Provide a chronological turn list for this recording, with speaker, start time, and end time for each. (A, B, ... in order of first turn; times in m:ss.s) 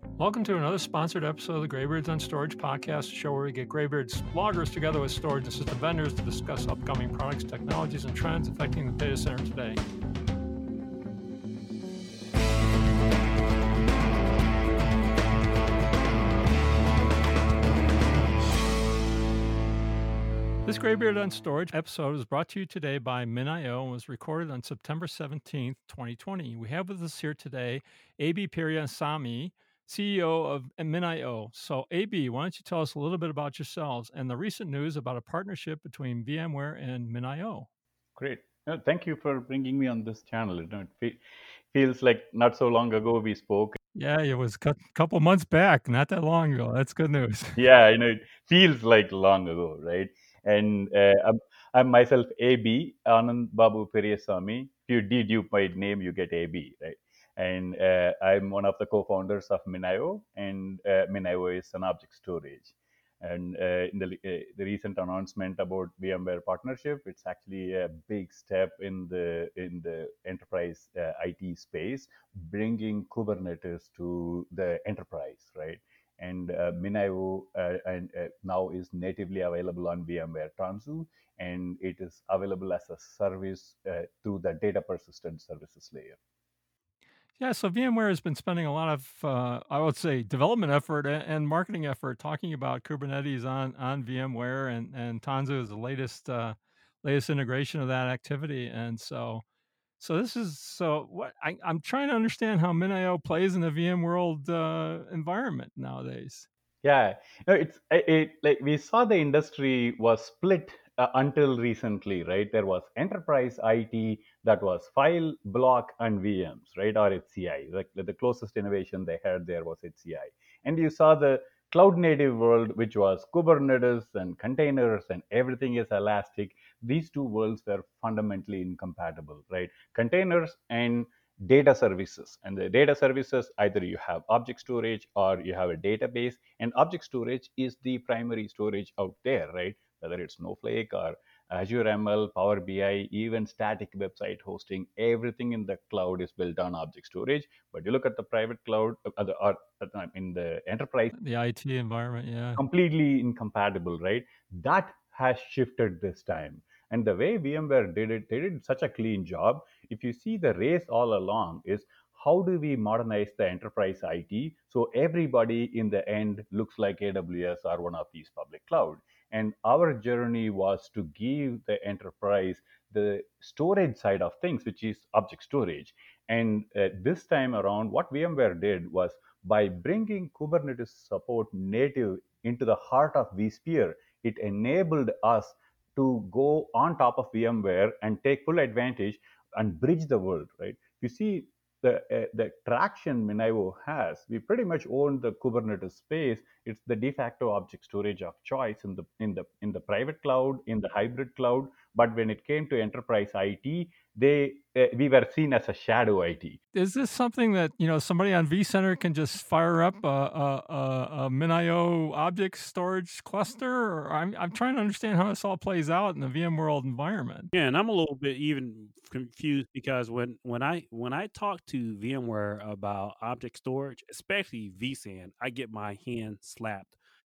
0:00.2-0:09.8 A
0:20.6-0:37.7 A
0:38.2-0:41.2 B
0:41.7-0:43.8 B
0:43.9-0:47.6 A
0:47.6-1:26.2 B
1:27.4-1:39.4 A
1:40.0-1:46.5 A
1:46.8-2:31.1 B
2:31.1-2:32.6 A
2:32.6-3:26.6 B
3:26.7-3:37.5 A
3:37.5-3:47.0 C